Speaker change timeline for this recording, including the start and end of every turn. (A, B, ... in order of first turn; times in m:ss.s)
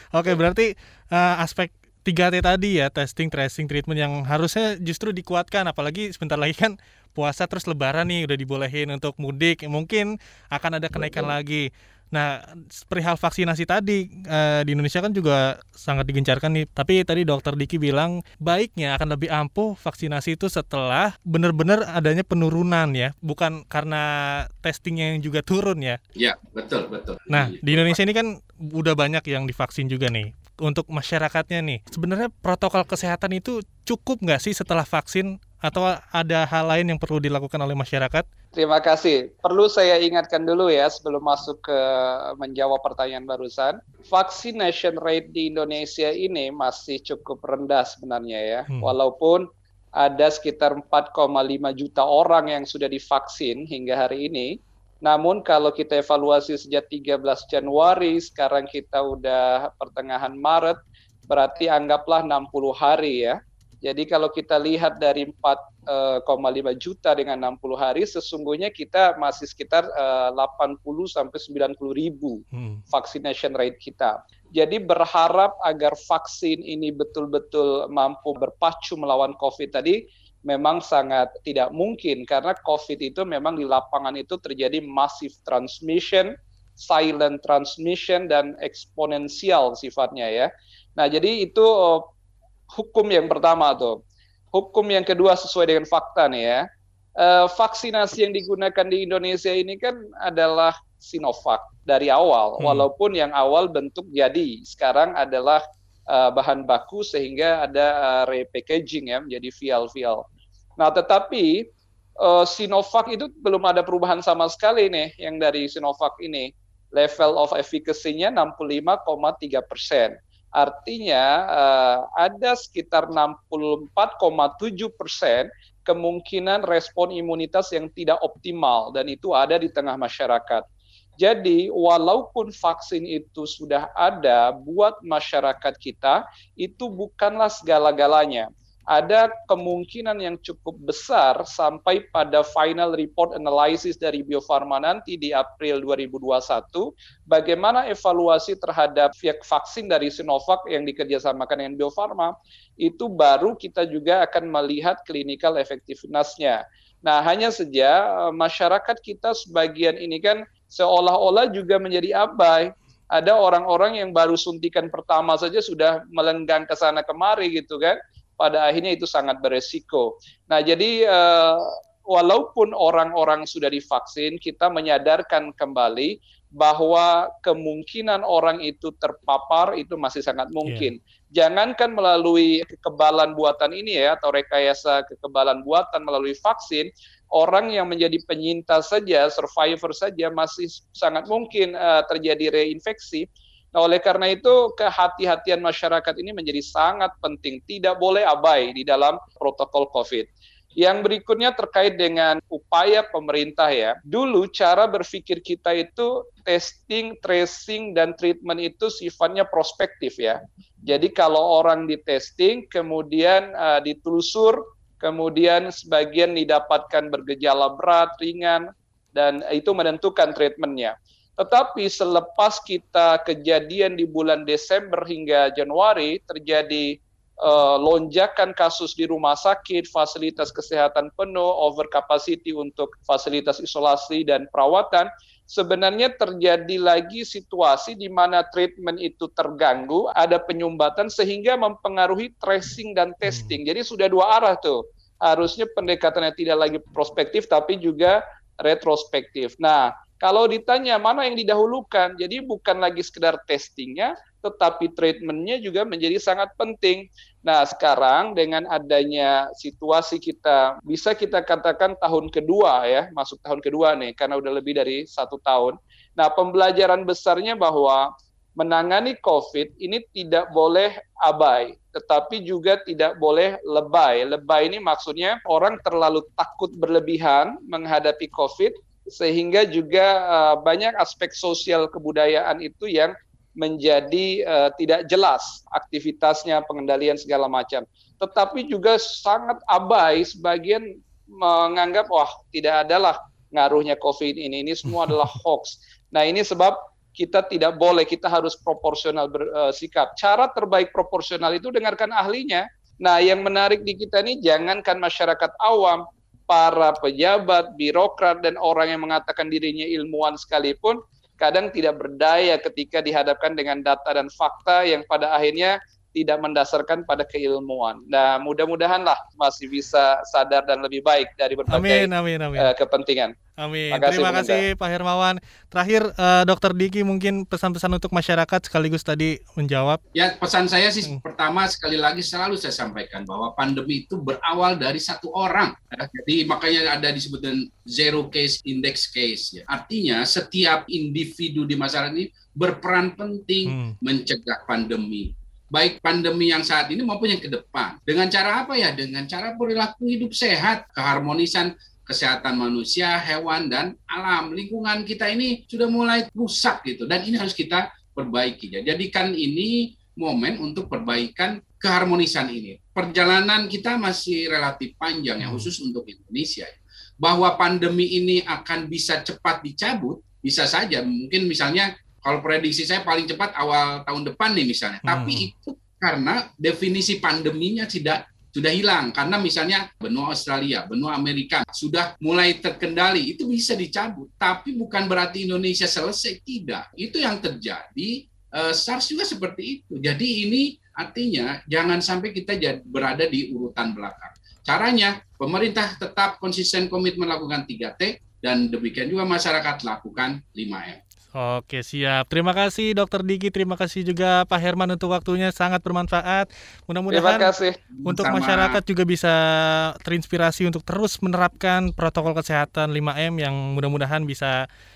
0:00.1-0:26.0 A
0:10.9-0:11.3 B
0:26.2-0:28.0 B
0:27.3-0:38.2 A
0:38.5-0:49.4 C
0:50.0-1:32.1 C
1:12.5-1:12.8 A
1:32.7-1:34.0 C
1:34.5-1:36.6 C
1:37.2-1:50.2 C
1:42.6-1:42.9 A
1:50.8-1:51.6 C
1:52.2-2:10.6 C
2:11.2-3:20.3 C
3:20.8-4:28.0 C
4:03.2-4:03.6 A
4:28.6-4:50.8 C
4:51.4-5:23.3 C
4:55.0-4:55.3 A
5:21.7-5:22.7 A
5:23.6-5:30.0 A
5:23.9-5:24.6 C
5:30.1-6:41.0 B
5:43.6-5:43.9 A
6:05.4-6:05.7 A
6:15.0-6:15.5 A
6:41.3-6:47.5 A
6:47.1-6:47.8 C
6:47.9-6:48.8 B
6:48.0-6:54.6 A